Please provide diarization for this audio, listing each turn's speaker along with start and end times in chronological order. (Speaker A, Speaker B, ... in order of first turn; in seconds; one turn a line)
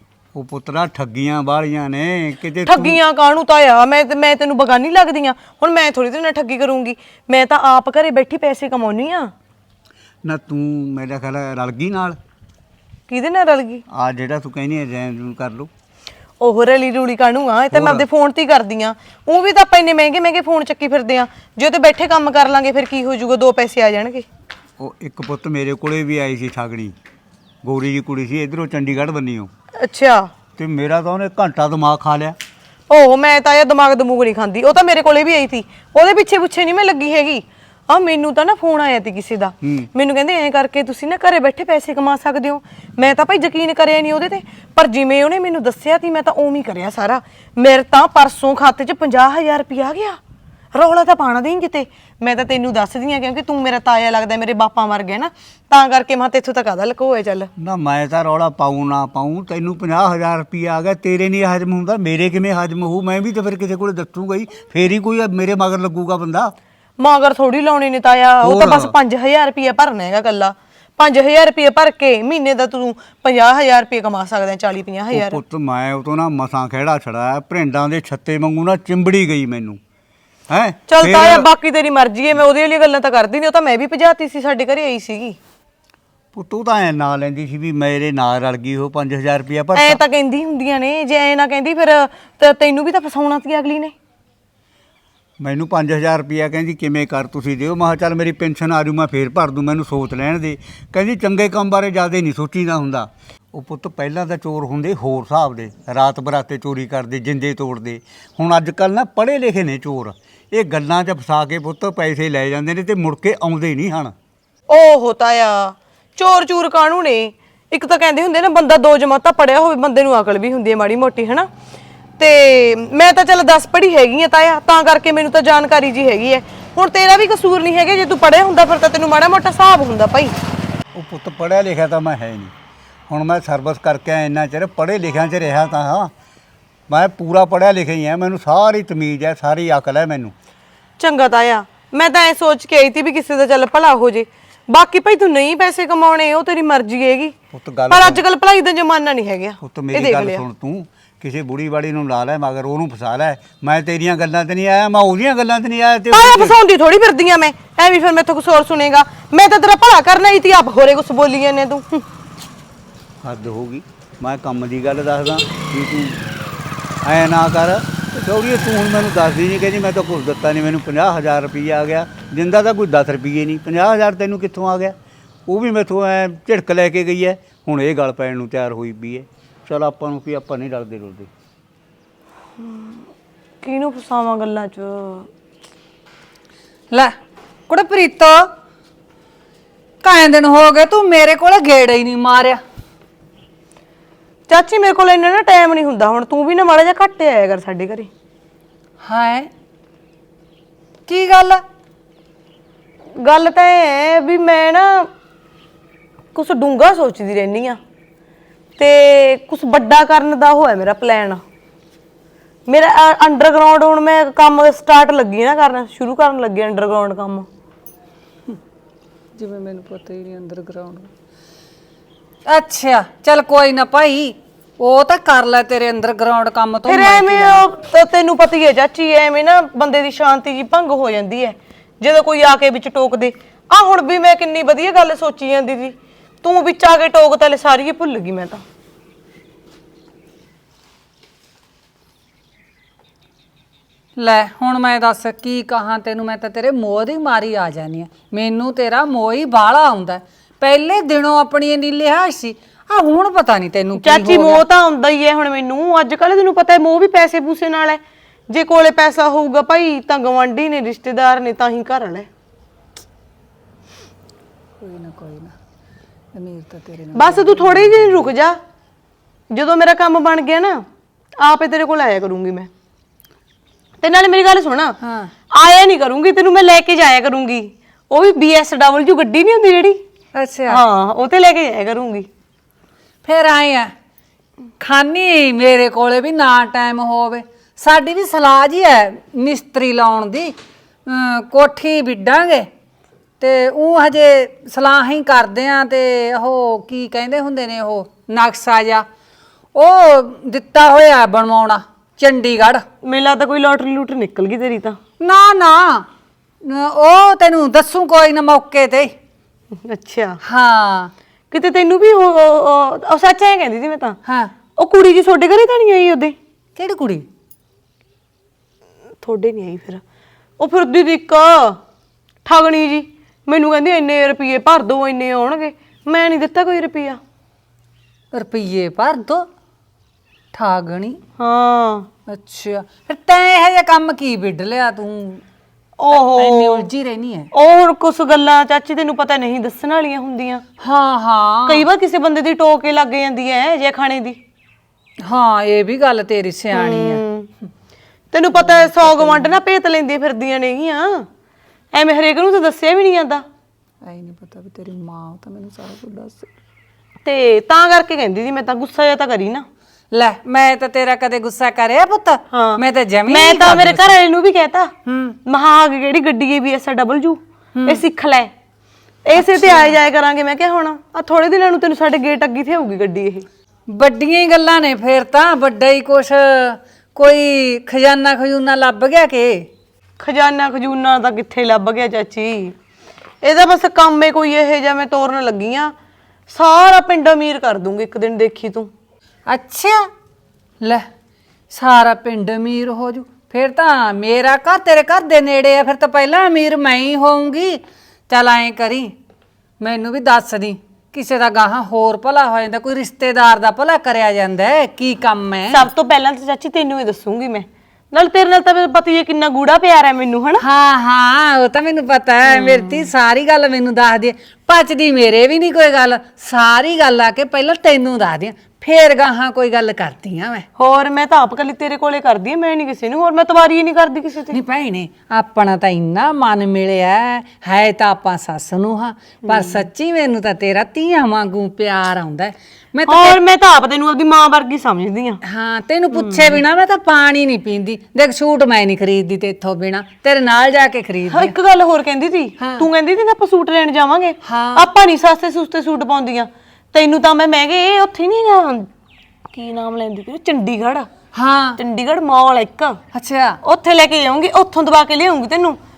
Speaker A: 0.3-3.0
Speaker B: 2.6-9.3
Speaker A: 10.2-12.2
Speaker B: 13.1-13.8
Speaker A: 13.9-15.7
Speaker B: 16.4-24.3
Speaker A: 17.7-18.1
Speaker A: 24.8-26.9
Speaker A: 27.6-29.5
Speaker B: 29.8-30.3
Speaker A: 30.6-32.4
Speaker B: 32.9-50.2
Speaker A: 39.6-39.9
Speaker B: 50.7-57.5
Speaker A: 57.6-66.5
Speaker B: 67.0-75.4
Speaker A: 68.4-68.9
Speaker A: 75.1-79.8
Speaker A: 80.5-81.5
Speaker B: 80.9-85.4
Speaker A: 86.3-90.0
Speaker B: 89.7-94.0
Speaker A: 95.4-114.1
Speaker B: 114.7-121.5
Speaker B: 122.2-130.4
Speaker A: 130.9-132.5
Speaker A: 133.1-136.1
Speaker A: 136.9-140.3
Speaker B: 141.0-147.3
Speaker A: 147.5-148.2
Speaker B: 147.9-150.4
Speaker A: 149.6-156.6
Speaker B: 156.1-162.1
Speaker A: 163.2-166.2
Speaker A: 167.0-175.0
Speaker A: 175.5-181.3
Speaker B: 182.6-183.1
Speaker B: 183.6-185.3
Speaker C: 187.7-188.5
Speaker C: 190.0-192.6
Speaker B: 194.5-198.1
Speaker C: 199.0-199.5
Speaker C: 201.1-201.6
Speaker B: 203.2-205.1
Speaker B: 206.3-207.8
Speaker B: 208.8-211.4
Speaker B: 212.7-217.5
Speaker C: 219.4-221.1
Speaker C: 222.5-227.7
Speaker B: 226.9-238.6
Speaker C: 244.2-254.6
Speaker B: 254.0-262.3
Speaker C: 264.8-265.6
Speaker C: 266.3-268.3
Speaker B: 267.1-268.6
Speaker B: 269.5-270.9
Speaker B: 271.4-272.7
Speaker B: 274.0-275.0
Speaker C: 275.0-275.3
Speaker B: 275.5-280.0
Speaker C: 280.4-280.8
Speaker B: 280.7-282.3
Speaker C: 283.2-283.9
Speaker C: 284.8-290.5
Speaker C: 291.1-292.7
Speaker C: 293.4-299.1
Speaker C: 299.7-302.8
Speaker B: 303.0-305.0
Speaker C: 305.2-306.1
Speaker C: 306.6-309.1
Speaker B: 309.8-310.4
Speaker C: 310.4-311.1
Speaker B: 311.5-314.2
Speaker C: 314.2-314.5
Speaker B: 314.8-316.4
Speaker C: 316.8-317.3
Speaker B: 319.2-320.0
Speaker B: 320.6-321.8
Speaker B: 322.4-327.2
Speaker C: 328.3-329.5
Speaker C: 330.5-331.2
Speaker B: 331.4-332.1
Speaker C: 332.3-335.4
Speaker B: 336.0-336.9
Speaker C: 336.1-337.5
Speaker B: 337.5-340.6
Speaker C: 340.8-341.9
Speaker B: 341.7-344.4
Speaker C: 345.2-347.2
Speaker B: 346.7-347.5
Speaker B: 348.3-351.3
Speaker C: 348.5-349.6
Speaker B: 351.9-353.4
Speaker C: 354.0-356.5
Speaker B: 357.2-359.7
Speaker C: 360.1-364.1
Speaker B: 362.5-364.9
Speaker C: 365.1-365.4
Speaker B: 365.4-368.5
Speaker C: 367.8-368.0
Speaker B: 369.2-373.5
Speaker C: 369.4-370.0
Speaker C: 373.9-379.7
Speaker B: 380.2-382.8
Speaker B: 383.4-385.9
Speaker B: 386.5-388.9
Speaker C: 389.5-390.1
Speaker C: 390.8-391.1
Speaker C: 391.7-399.1
Speaker C: 399.8-405.9
Speaker B: 405.7-410.6
Speaker C: 410.6-420.6
Speaker B: 412.5-413.1
Speaker B: 420.8-424.6
Speaker C: 424.5-433.4
Speaker B: 429.4-429.9
Speaker B: 433.1-435.4
Speaker C: 435.4-441.5
Speaker B: 436.1-436.6
Speaker B: 441.3-448.9
Speaker C: 442.6-442.9
Speaker C: 444.4-444.9
Speaker B: 449.5-451.1
Speaker C: 451.3-451.8
Speaker B: 451.8-453.0
Speaker C: 453.1-453.6
Speaker B: 453.6-455.8